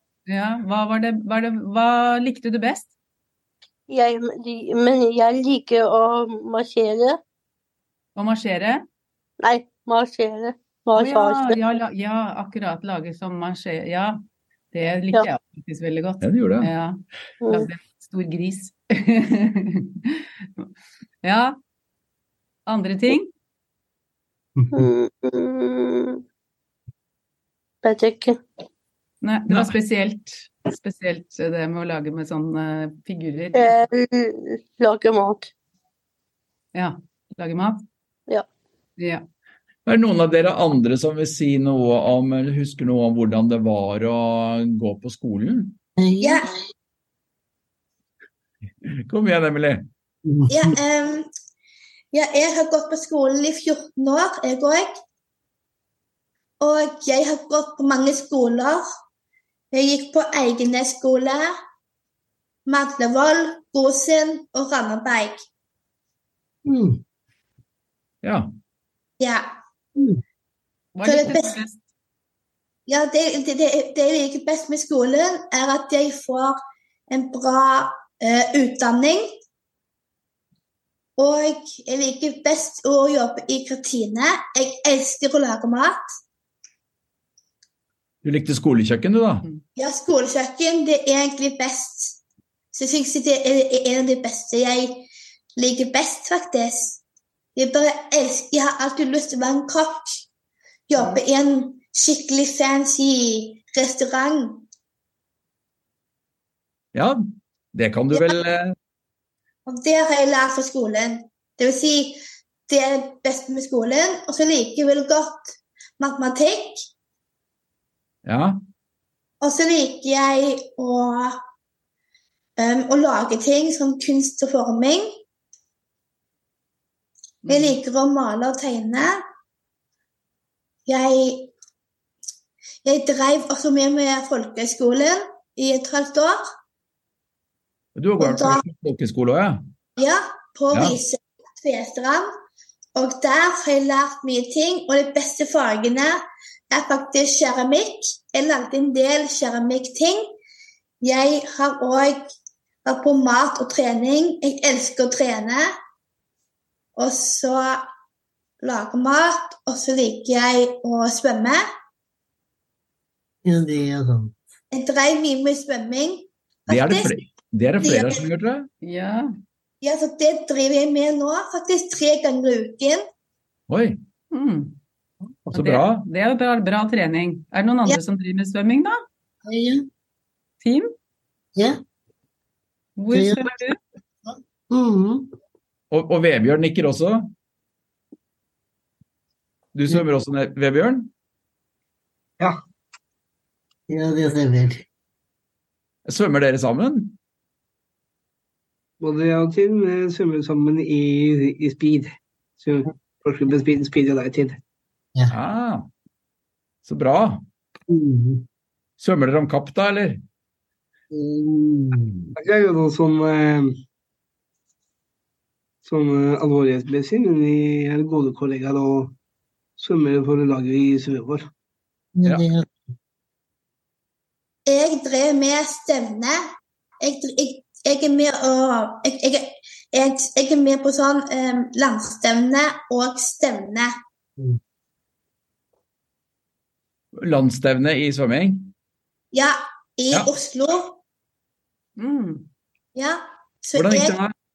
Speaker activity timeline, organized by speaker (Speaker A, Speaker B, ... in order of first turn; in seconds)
Speaker A: 0.3-2.9, 8.2-8.8, 10.9-20.7, 21.2-21.6, 22.6-23.3, 29.2-33.8, 36.7-37.8, 39.0-39.2, 70.9-71.8, 127.5-127.7, 168.8-169.3, 174.3-174.8, 175.5-179.0, 180.6-180.9, 183.0-183.8, 242.0-242.5
Speaker B: 3.9-7.2, 9.4-11.6, 17.4-17.7, 24.7-26.2, 27.8-28.4, 33.5-35.5
Speaker C: 16.2-16.7, 29.5-29.7, 39.9-45.8, 48.8-49.9, 68.2-68.5, 88.2-89.5, 106.9-108.7, 118.2-118.6, 137.9-139.6, 140.7-141.0, 166.7-168.7, 173.7-174.0, 175.4-176.1, 185.9-187.3, 189.7-191.1, 196.1-197.2, 205.3-205.9, 206.8-207.4, 209.0-210.2, 237.2-238.7, 243.7-244.3
Speaker D: 46.0-46.7, 50.2-50.8, 66.6-67.0, 163.4-164.4, 179.4-179.8, 181.5-181.8, 183.1-183.5, 184.3-185.3, 193.9-194.8, 207.9-208.4, 211.1-212.3, 222.2-222.7
Speaker E: 46.2-46.5, 50.5-51.3, 52.1-55.0, 56.6-58.8, 59.7-61.5, 62.6-65.4, 69.2-69.5, 71.0-71.6, 72.9-76.6, 77.1-79.3, 81.2-86.0, 89.8-92.2, 92.7-97.0, 97.5-100.2, 100.9-104.7, 109.7-116.8, 119.4-121.4, 122.6-125.1, 127.4-129.2, 130.9-131.5, 132.8-136.4, 138.2-138.6, 140.0-142.3, 142.9-146.2, 146.7-150.2, 151.0-152.3, 152.8-155.7, 156.9-157.9, 158.6-161.6, 164.7-167.1, 167.8-168.2, 169.8-173.0, 224.7-226.4, 227.0-233.9, 239.3-241.0, 242.9-244.2
Speaker F: 199.0-204.6, 212.4-213.8, 215.8-219.1, 219.8-221.5